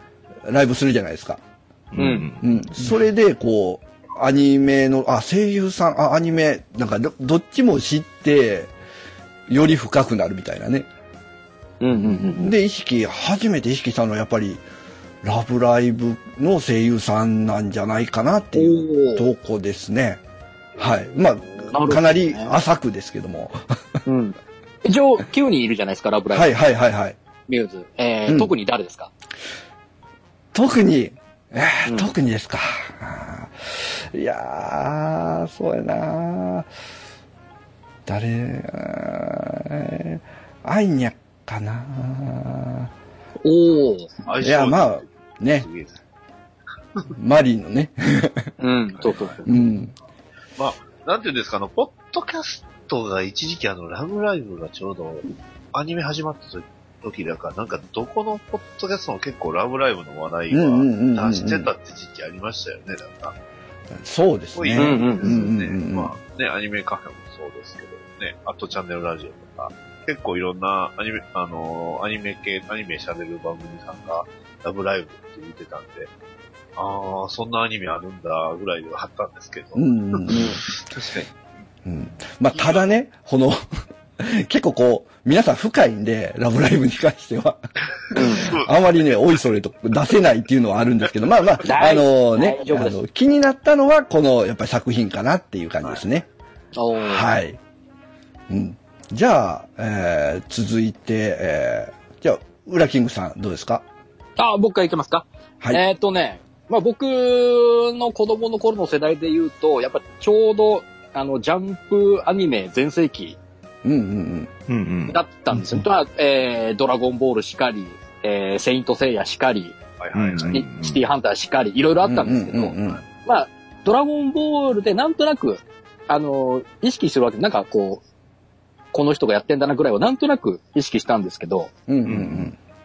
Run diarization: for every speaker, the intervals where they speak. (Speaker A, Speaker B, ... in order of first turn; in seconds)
Speaker A: 0.5-1.4, 2.4-8.7, 9.5-10.9, 11.9-14.6, 15.2-20.2, 20.8-24.0, 26.3-27.2, 28.3-28.5, 30.5-36.7, 38.1-42.9, 44.4-45.7, 47.2-48.5, 49.5-49.9, 60.5-61.7, 64.0-66.1, 79.8-80.5, 81.8-83.6, 84.2-87.6, 88.1-96.3, 97.0-97.6, 98.5-103.8, 113.8-114.5, 122.0-123.0, 131.9-132.6
Speaker B: 1.9-2.6, 114.7-115.8, 120.1-121.0, 132.1-132.5
Speaker C: 2.0-2.3, 11.8-12.5, 18.6-19.3, 21.7-22.5, 24.1-26.6, 27.5-29.1, 31.9-32.1, 43.4-44.3, 48.6-49.5, 64.8-65.4, 80.3-80.6, 88.1-88.6, 91.6-93.0, 96.8-97.3, 104.4-113.4, 115.1-119.8, 120.5-128.0, 128.9-131.7
Speaker D: 44.3-46.0, 49.0-49.4, 50.6-63.4, 64.5-76.1, 76.8-81.3, 82.5-82.9, 88.1-88.7, 120.0-120.6